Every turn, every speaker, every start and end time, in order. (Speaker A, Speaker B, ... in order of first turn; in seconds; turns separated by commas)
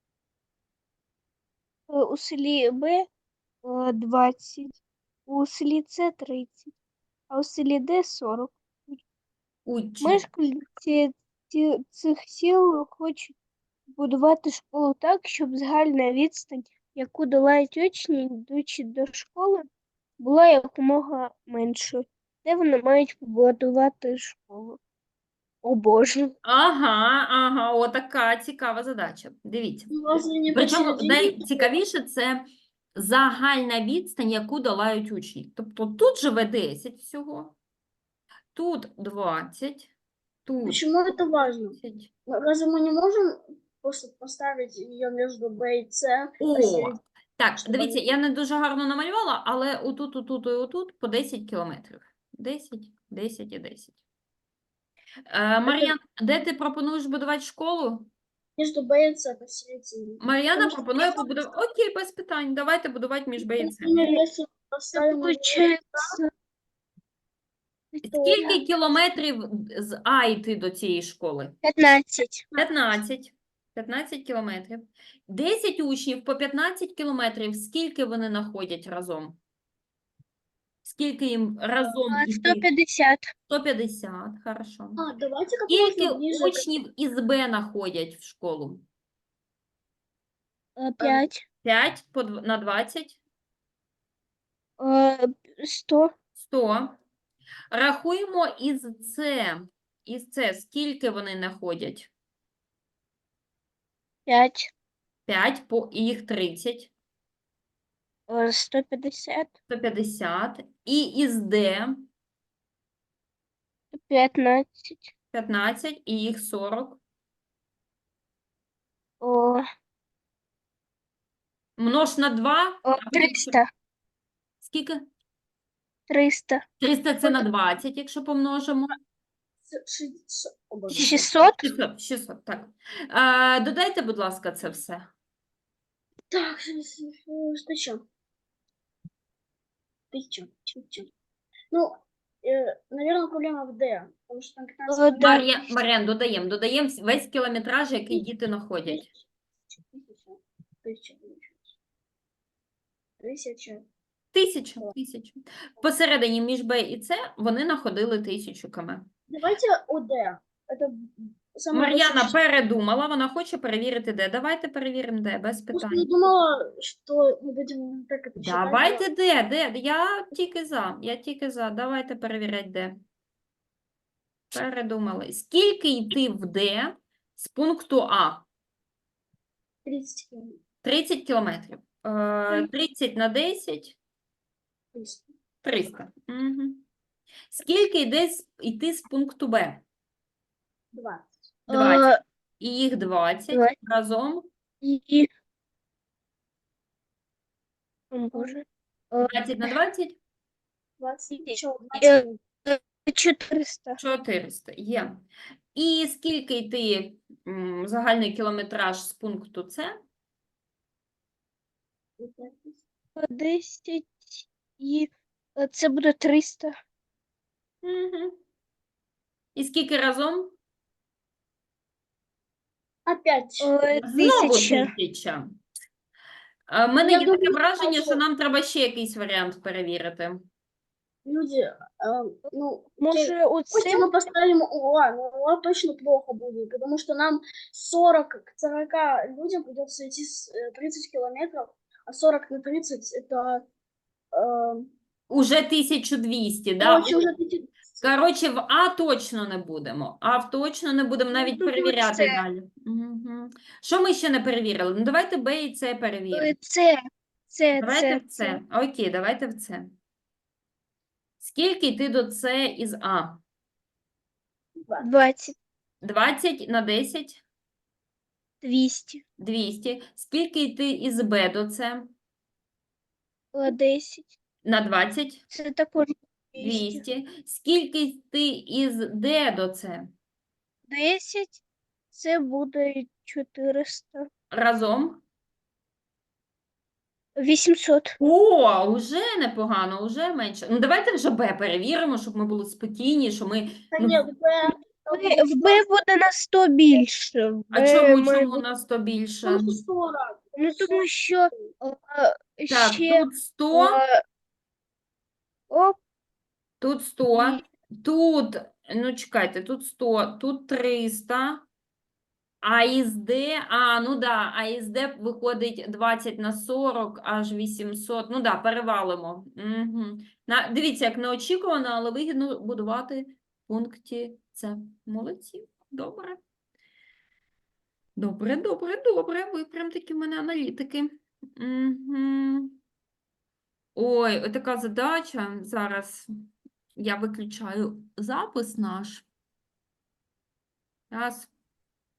Speaker A: 1.9-3.1, Speaker A: 3.6-6.7, Speaker A: 7.3-9.0, Speaker B: 9.7-10.2, Speaker A: 10.0-13.3, Speaker A: 14.0-19.6, Speaker A: 20.2-24.8, Speaker A: 25.6-26.3, Speaker B: 26.4-37.5, Speaker C: 29.9-31.7, Speaker B: 38.5-39.9, Speaker B: 40.5-40.9, Speaker C: 40.7-47.0, Speaker B: 41.7-42.1, Speaker B: 46.4-54.0, Speaker C: 47.6-48.1, Speaker B: 55.3-58.1, Speaker C: 55.6-55.9, Speaker C: 58.6-61.5, Speaker B: 60.2-64.0, Speaker C: 63.4-66.2, Speaker A: 64.9-66.3, Speaker A: 67.9-68.5, Speaker B: 68.0-71.6, Speaker C: 68.1-68.5, Speaker A: 71.6-72.5, Speaker B: 72.6-79.4, Speaker B: 80.8-82.7, Speaker A: 82.1-83.3, Speaker B: 83.5-85.0, Speaker C: 85.0-86.8, Speaker B: 85.7-88.8, Speaker A: 90.8-91.4, Speaker C: 91.0-91.3, Speaker B: 91.6-93.2, Speaker A: 94.8-96.1, Speaker B: 96.3-97.0, Speaker B: 97.7-102.1, Speaker A: 104.2-104.7, Speaker B: 105.3-106.9, Speaker A: 108.3-109.5, Speaker B: 109.7-112.0, Speaker A: 113.9-115.1, Speaker B: 115.3-117.0, Speaker A: 119.2-119.6, Speaker B: 121.8-123.6, Speaker A: 122.8-123.7, Speaker B: 124.6-125.0, Speaker A: 126.1-126.6, Speaker B: 126.8-128.9, Speaker C: 129.7-131.4, Speaker A: 130.9-131.6, Speaker B: 131.0-135.1, Speaker C: 136.3-138.0, Speaker C: 140.1-141.1, Speaker C: 141.7-145.4, Speaker A: 144.9-145.5, Speaker B: 145.2-149.0, Speaker C: 148.9-151.7, Speaker C: 153.2-153.8, Speaker B: 154.3-159.1, Speaker C: 159.3-162.3, Speaker B: 161.7-166.1, Speaker C: 165.7-169.0, Speaker B: 168.4-172.9, Speaker B: 174.5-178.4, Speaker C: 179.8-180.6, Speaker B: 180.8-184.0, Speaker C: 184.9-185.2, Speaker B: 185.6-186.8, Speaker B: 187.5-189.8, Speaker C: 190.9-191.5, Speaker B: 191.7-192.1, Speaker A: 191.7-192.2, Speaker B: 192.6-194.5, Speaker A: 194.8-195.3, Speaker A: 198.1-199.7, Speaker B: 199.2-200.2, Speaker C: 201.0-202.4, Speaker A: 201.1-204.0, Speaker B: 204.0-210.0, Speaker C: 212.2-212.8, Speaker A: 213.2-216.7, Speaker B: 217.8-218.3, Speaker B: 219.5-220.6, Speaker C: 223.1-223.7, Speaker A: 223.6-224.9, Speaker B: 224.0-225.6, Speaker B: 226.7-230.4, Speaker C: 227.0-228.2, Speaker C: 231.2-243.7, Speaker A: 233.0-234.1, Speaker C: 244.3-244.9, Speaker B: 245.3-247.2, Speaker C: 246.8-248.0, Speaker B: 248.0-256.5, Speaker A: 251.3-252.4, Speaker A: 256.3-257.0, Speaker A: 257.5-258.6, Speaker B: 257.7-259.9, Speaker B: 261.4-263.4, Speaker A: 265.0-265.6, Speaker B: 266.0-267.4, Speaker A: 268.6-269.2, Speaker B: 269.4-272.1, Speaker A: 273.5-274.4, Speaker B: 274.6-275.4, Speaker A: 275.5-277.0, Speaker B: 276.6-280.1, Speaker A: 280.9-281.6, Speaker A: 282.1-284.3, Speaker B: 284.5-285.2, Speaker A: 287.4-288.2, Speaker B: 288.2-294.2, Speaker C: 293.9-295.8, Speaker A: 294.6-298.6, Speaker B: 297.7-299.8, Speaker C: 299.4-301.7, Speaker A: 300.6-304.2, Speaker B: 302.7-304.0, Speaker A: 305.7-306.0, Speaker B: 306.8-311.6, Speaker A: 307.3-307.6, Speaker B: 312.6-326.4, Speaker B: 328.1-332.8, Speaker B: 333.9-336.3, Speaker B: 336.9-339.2, Speaker B: 341.1-341.5